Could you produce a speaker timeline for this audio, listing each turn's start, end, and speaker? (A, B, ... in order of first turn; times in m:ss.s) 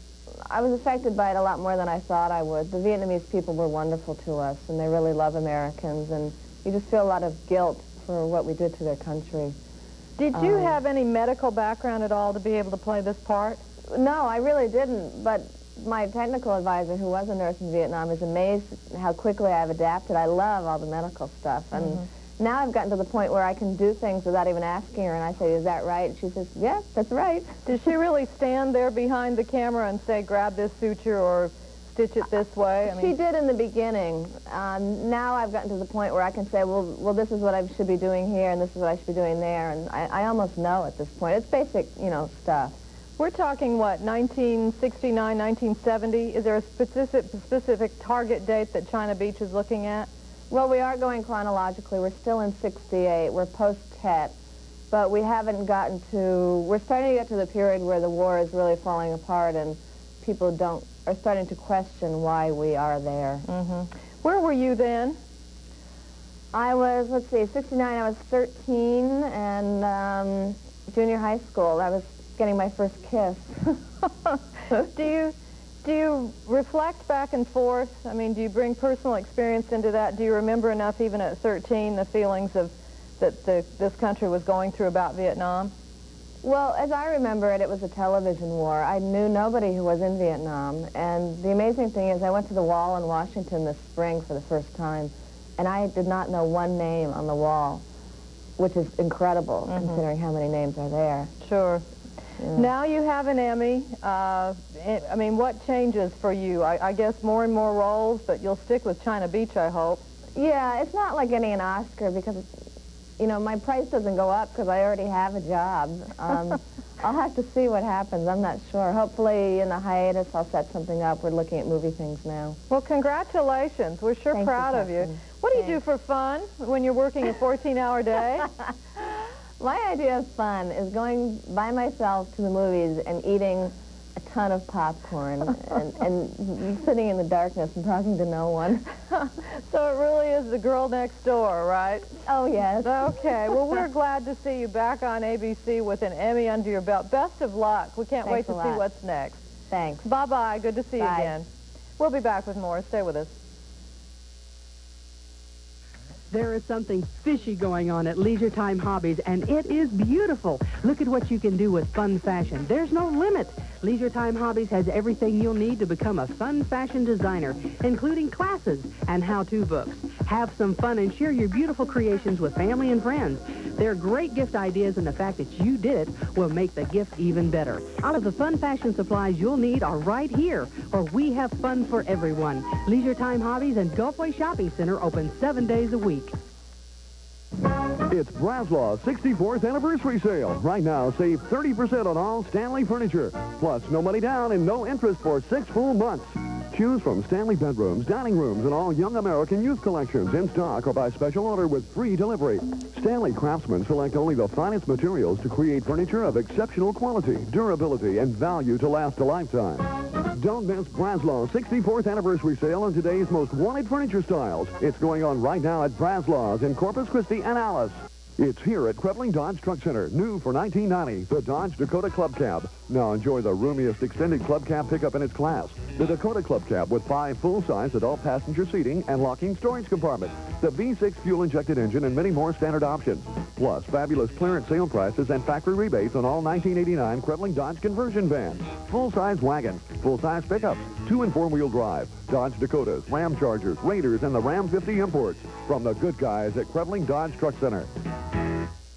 0:00.5-0:09.6 A
0:10.2-0:13.6 B
0:10.3-0:10.8 A
0:13.9-0:27.5 A
0:21.7-0:22.0 B
0:27.7-0:33.2 B
0:32.8-0:42.8 A
0:43.2-0:50.1 B
0:50.5-0:54.3 A
0:54.9-1:03.4 A
1:03.5-1:05.2 B
1:06.5-1:13.8 A
1:14.7-1:25.7 B
1:26.4-1:37.8 A
1:38.6-1:41.3 A
1:39.7-1:40.0 B
1:41.4-1:41.8 B
1:42.4-1:42.7 A
1:42.5-1:50.0 B
1:50.3-1:52.5 A
1:53.2-2:02.6 A
2:02.7-2:08.5 B
2:04.3-2:05.8 A
2:09.6-2:19.3 A
2:19.5-2:22.2 B
2:22.2-2:23.5 A
2:22.8-2:29.4 B
2:28.2-2:28.8 A
2:29.7-2:30.0 A
2:30.0-2:31.4 B
2:31.0-2:31.4 A
2:32.0-2:33.3 B
2:36.3-3:06.3 C
3:08.1-4:07.9 D